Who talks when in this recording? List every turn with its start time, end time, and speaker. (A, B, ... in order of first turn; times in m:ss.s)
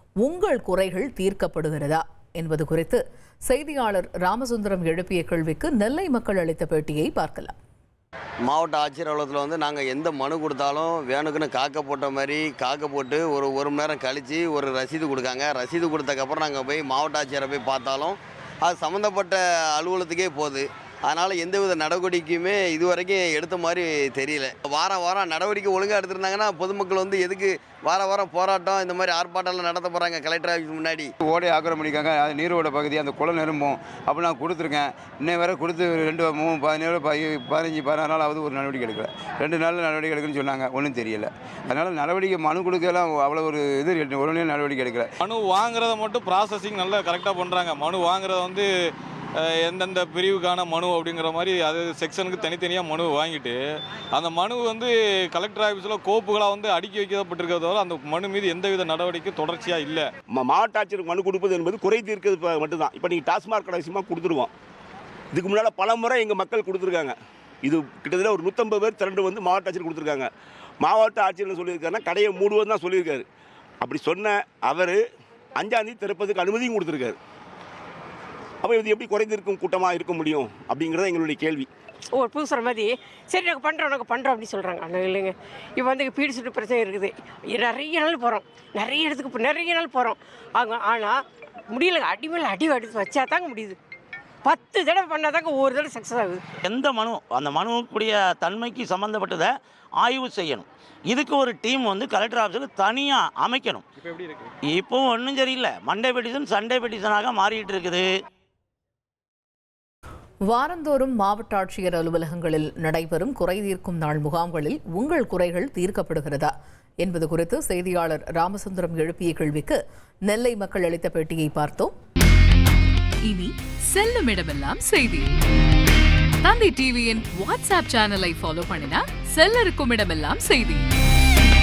0:00.2-0:07.5 A
0:08.4-0:31.1 B
0:31.2-0:45.1 C
0:45.2-0:48.7 D
0:49.4-0:53.6 D
0:54.1-1:00.1 D
1:00.3-1:04.5 E
1:05.3-1:10.3 E
1:10.8-1:13.2 E
1:13.8-1:15.0 E
1:15.6-1:17.2 E
1:18.6-1:21.7 E
1:22.1-1:33.8 F
1:34.4-1:36.5 F
1:36.6-1:43.8 G
1:44.7-1:48.0 G
1:50.5-2:01.9 A
2:03.2-2:05.4 H
2:06.4-2:10.9 H